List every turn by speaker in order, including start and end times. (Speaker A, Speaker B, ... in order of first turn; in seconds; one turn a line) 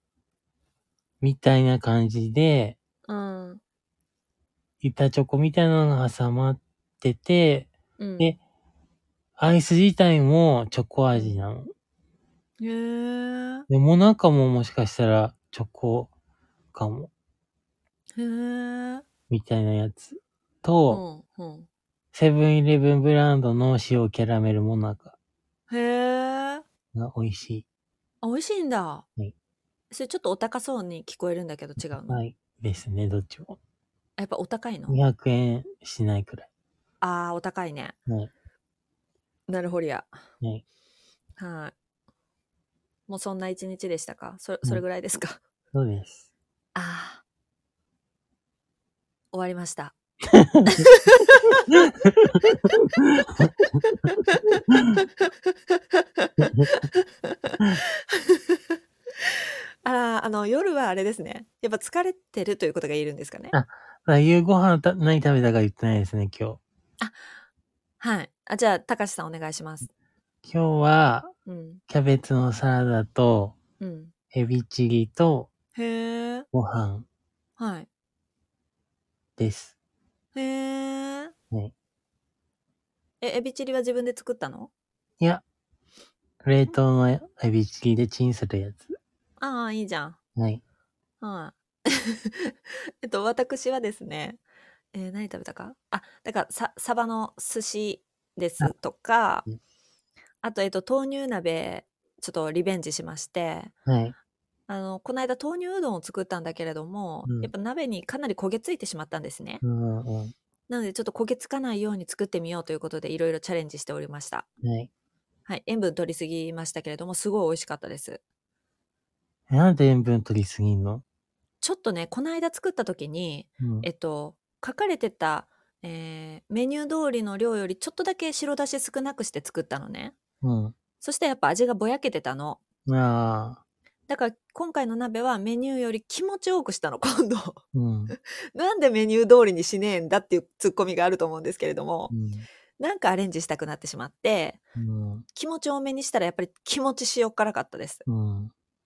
Speaker A: 1.2-2.8
Speaker B: 3.1-3.6
Speaker A: 4.8-8.4
Speaker B: 8.0-8.4
Speaker A: 9.4-11.7
Speaker B: 11.1-11.4
Speaker B: 12.6-13.7
Speaker A: 13.7-16.1
Speaker A: 16.7-17.1
Speaker B: 18.1-19.0
Speaker A: 19.3-21.0
Speaker B: 20.9-21.7
Speaker A: 22.1-25.1
Speaker B: 25.7-26.6
Speaker A: 26.9-27.6
Speaker B: 28.2-29.1
Speaker B: 29.9-32.2
Speaker A: 32.0-33.6
Speaker B: 34.2-35.0
Speaker A: 34.9-36.5
Speaker B: 37.0-38.0
Speaker B: 39.5-40.1
Speaker B: 41.4-41.7
Speaker B: 43.1-45.4
Speaker A: 45.7-46.2
Speaker B: 46.7-47.2
Speaker B: 49.3-49.9
Speaker A: 50.3-50.9
Speaker B: 50.7-51.6
Speaker A: 51.7-52.4
Speaker A: 53.0-53.5
Speaker B: 53.6-58.6
Speaker A: 54.7-55.0
Speaker A: 56.4-56.7
Speaker B: 59.8-63.5
Speaker A: 63.5-66.6
Speaker B: 68.0-69.9
Speaker A: 70.4-71.3
Speaker B: 71.5-71.8
Speaker A: 71.9-73.6
Speaker B: 73.8-74.1
Speaker A: 74.3-75.5
Speaker B: 75.8-76.5
Speaker A: 76.5-77.0
Speaker B: 77.6-77.9
Speaker A: 79.4-79.7
Speaker B: 80.3-81.3
Speaker B: 83.2-84.7
Speaker A: 86.4-89.0
Speaker B: 89.4-90.2
Speaker B: 91.2-94.4
Speaker B: 94.9-99.5
Speaker B: 100.4-103.7
Speaker A: 103.9-104.1
Speaker B: 104.7-109.6
Speaker A: 109.6-110.3
Speaker B: 110.7-114.5
Speaker A: 114.6-114.9
Speaker B: 115.5-118.2
Speaker A: 119.5-121.0
Speaker B: 121.6-130.2
Speaker A: 123.6-123.9
Speaker A: 130.4-130.7
Speaker B: 131.0-132.6
Speaker A: 132.9-133.6
Speaker B: 134.1-142.1
Speaker A: 137.7-138.1
Speaker A: 142.1-142.5
Speaker B: 142.8-144.6
Speaker A: 144.8-145.2
Speaker B: 145.3-148.0
Speaker A: 148.1-148.5